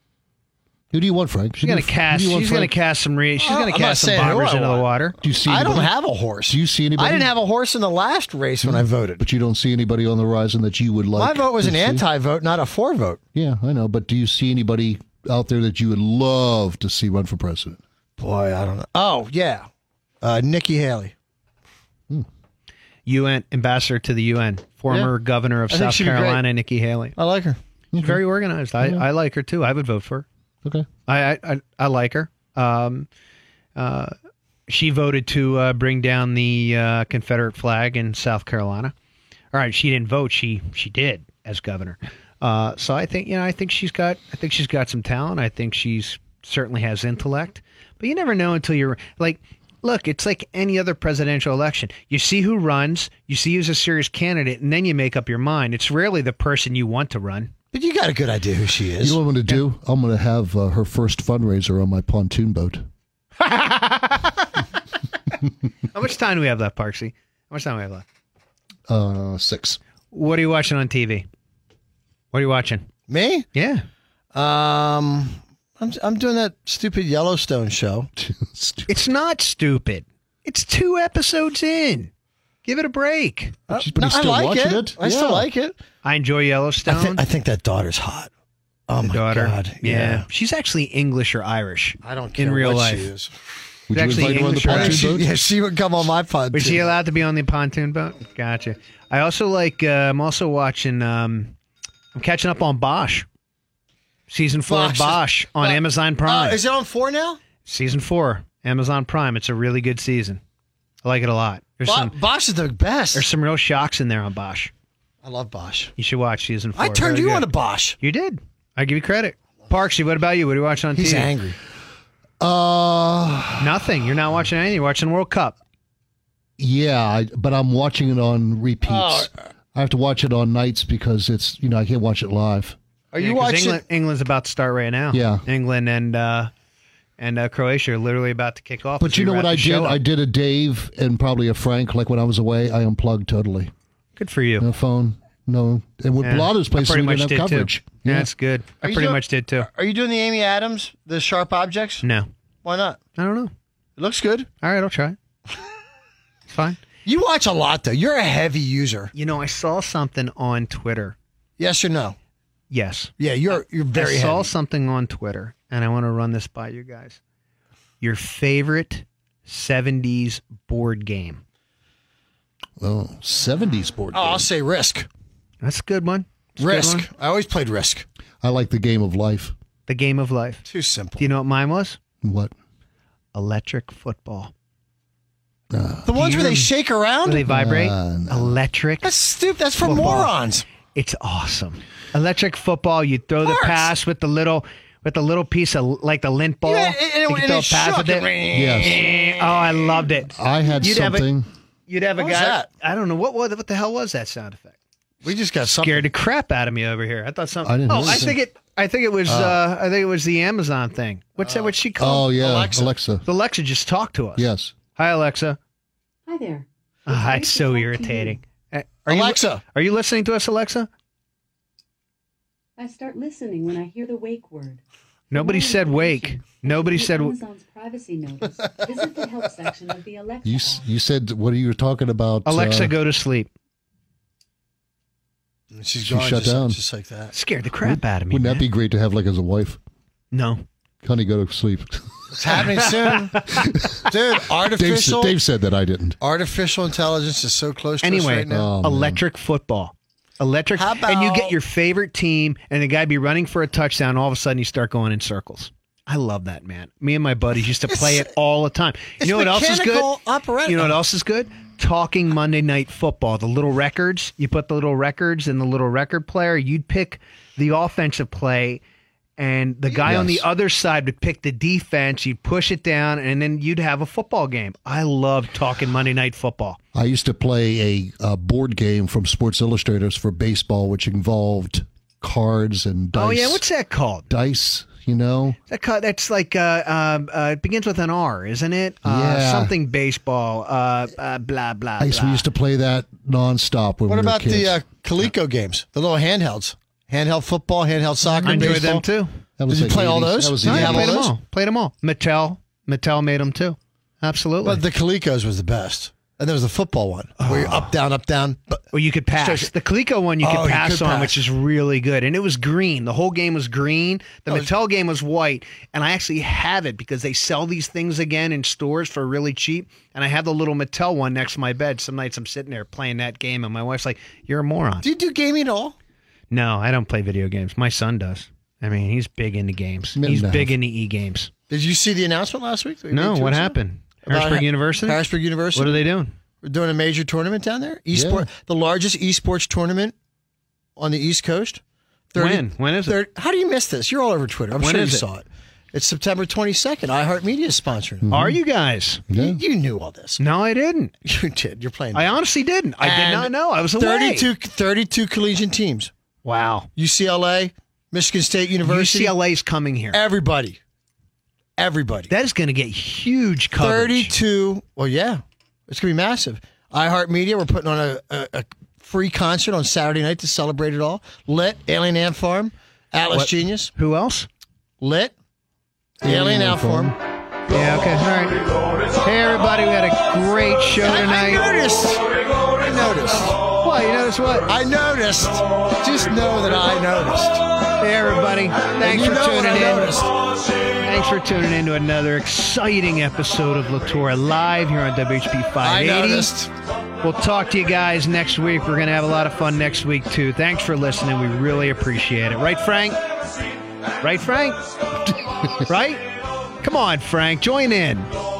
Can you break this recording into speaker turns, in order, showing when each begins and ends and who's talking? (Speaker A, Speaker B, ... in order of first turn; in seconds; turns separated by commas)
Speaker A: 0.9-2.7, Speaker B: 1.6-5.2, Speaker C: 3.4-9.2, Speaker A: 5.2-5.9, Speaker A: 6.5-7.3, Speaker A: 8.6-12.0, Speaker C: 11.2-13.2, Speaker A: 13.3-17.8, Speaker C: 18.2-19.7, Speaker C: 20.2-21.1, Speaker B: 23.1-27.2, Speaker C: 25.7-26.4, Speaker C: 27.2-27.6, Speaker A: 27.9-28.2, Speaker B: 28.0-30.3, Speaker A: 28.8-29.1, Speaker B: 31.1-33.1, Speaker B: 33.8-34.1, Speaker B: 34.7-38.9, Speaker B: 39.5-57.5, Speaker C: 57.7-59.2, Speaker A: 59.0-62.9, Speaker B: 63.4-64.5, Speaker B: 65.9-68.0, Speaker A: 68.9-69.8, Speaker B: 70.1-71.3, Speaker B: 72.3-72.9, Speaker C: 73.1-73.5, Speaker B: 73.5-73.8, Speaker C: 74.3-78.1, Speaker A: 78.2-78.9, Speaker B: 78.9-82.1, Speaker B: 82.7-83.6, Speaker C: 83.7-85.8, Speaker A: 83.7-85.5, Speaker B: 86.0-87.2, Speaker C: 86.9-88.3, Speaker C: 88.9-90.2, Speaker B: 89.0-93.1, Speaker C: 92.0-93.3, Speaker A: 93.9-95.3, Speaker B: 93.9-95.1, Speaker C: 94.0-96.8, Speaker B: 96.5-101.5, Speaker B: 102.2-103.3, Speaker B: 104.3-106.6, Speaker C: 104.7-107.4, Speaker B: 107.7-110.4, Speaker B: 111.0-112.1, Speaker C: 111.8-113.3, Speaker B: 113.1-114.7, Speaker C: 115.2-115.9, Speaker B: 116.0-117.5, Speaker C: 116.8-118.0, Speaker B: 118.0-121.3, Speaker C: 121.0-121.6, Speaker A: 122.4-123.6, Speaker B: 123.6-125.6, Speaker A: 126.6-132.8, Speaker C: 128.8-129.3, Speaker C: 133.1-133.8, Speaker B: 133.2-136.5, Speaker A: 135.1-135.4, Speaker B: 137.2-140.0, Speaker A: 139.0-143.7, Speaker B: 144.2-144.7, Speaker A: 144.6-148.3, Speaker B: 146.2-149.7, Speaker C: 148.8-152.1, Speaker B: 152.0-152.3, Speaker C: 152.6-153.0, Speaker B: 153.2-153.5, Speaker C: 154.0-154.5, Speaker B: 154.6-155.2, Speaker B: 156.5-156.8, Speaker C: 157.1-159.1, Speaker B: 159.1-161.2, Speaker C: 161.6-162.2, Speaker B: 162.7-163.1, Speaker C: 163.2-164.5, Speaker B: 163.9-167.2, Speaker B: 168.0-171.4, Speaker A: 172.8-174.5, Speaker C: 174.1-175.1, Speaker B: 175.6-177.1, Speaker C: 176.6-178.1, Speaker A: 178.4-179.5, Speaker B: 179.9-180.7, Speaker C: 180.7-181.3, Speaker B: 181.2-182.0, Speaker A: 182.2-182.5, Speaker B: 183.3-184.5, Speaker A: 185.7-186.3, Speaker C: 186.1-187.5, Speaker B: 186.2-186.7, Speaker B: 187.2-189.1, Speaker A: 187.5-188.6, Speaker C: 189.0-190.7, Speaker B: 189.8-190.3, Speaker B: 190.9-198.3, Speaker C: 193.4-193.9, Speaker C: 196.7-199.1, Speaker A: 198.5-199.1, Speaker B: 198.8-201.3, Speaker A: 200.3-201.5, Speaker B: 201.9-204.8, Speaker C: 202.2-202.7, Speaker C: 205.2-206.1, Speaker B: 205.8-212.3, Speaker A: 207.6-208.4, Speaker C: 208.0-208.3, Speaker C: 211.4-212.9, Speaker A: 212.0-213.2, Speaker B: 213.2-215.6, Speaker A: 214.4-214.7, Speaker D: 216.3-218.4, Speaker B: 217.1-220.9, Speaker C: 219.1-219.6, Speaker D: 222.8-230.9, Speaker B: 225.3-227.4, Speaker A: 230.4-232.9, Speaker B: 232.5-233.5, Speaker C: 235.7-237.3, Speaker A: 236.0-236.8, Speaker B: 237.3-238.7, Speaker A: 237.8-239.8, Speaker B: 240.3-240.6, Speaker A: 241.0-242.3, Speaker C: 242.3-243.4, Speaker B: 242.8-243.7, Speaker A: 243.6-246.2, Speaker C: 244.1-245.4, Speaker C: 246.2-248.7, Speaker B: 248.0-260.1, Speaker A: 248.5-249.2, Speaker C: 250.8-251.6, Speaker C: 257.9-258.3, Speaker C: 259.2-261.0, Speaker B: 260.6-268.8, Speaker B: 269.4-276.8, Speaker C: 269.9-270.2, Speaker A: 270.1-270.4, Speaker A: 276.9-283.6, Speaker B: 283.1-284.3, Speaker A: 284.3-285.6, Speaker B: 285.7-292.5, Speaker A: 289.1-289.8, Speaker A: 292.0-295.3, Speaker C: 294.1-299.0, Speaker A: 298.3-298.8, Speaker B: 298.4-299.4, Speaker A: 299.6-301.3, Speaker C: 299.7-301.3, Speaker B: 300.6-304.8, Speaker C: 304.6-309.7, Speaker B: 307.4-307.9, Speaker B: 308.9-325.1, Speaker C: 310.4-311.4, Speaker C: 325.0-325.9, Speaker B: 326.5-331.5, Speaker A: 330.1-330.8, Speaker C: 331.7-333.8, Speaker B: 333.1-335.2, Speaker C: 334.3-336.0, Speaker B: 335.7-336.3, Speaker C: 336.6-340.1, Speaker A: 338.1-338.5, Speaker C: 341.0-341.8, Speaker C: 342.3-348.3, Speaker B: 342.4-343.2, Speaker B: 344.8-345.3, Speaker A: 348.2-348.6, Speaker B: 348.3-349.2, Speaker A: 349.3-349.6, Speaker C: 349.3-350.4, Speaker B: 350.4-351.1, Speaker C: 351.2-352.3, Speaker B: 352.1-354.5, Speaker C: 353.0-356.1, Speaker B: 356.4-356.9, Speaker C: 357.0-359.4, Speaker B: 358.9-360.2, Speaker C: 360.1-360.8, Speaker C: 361.8-362.3, Speaker B: 362.3-364.3, Speaker C: 363.8-373.9, Speaker B: 373.3-374.5, Speaker C: 375.0-375.3, Speaker A: 376.2-377.2, Speaker C: 376.2-377.2, Speaker B: 377.7-378.6, Speaker B: 379.2-381.6, Speaker C: 381.0-383.6, Speaker B: 383.8-384.7, Speaker C: 384.7-387.6, Speaker B: 388.0-390.1, Speaker C: 389.0-390.3, Speaker B: 391.0-396.5, Speaker C: 395.8-396.7, Speaker B: 397.2-403.2, Speaker B: 404.2-404.8, Speaker A: 405.2-405.9, Speaker B: 405.9-406.2, Speaker B: 406.8-408.3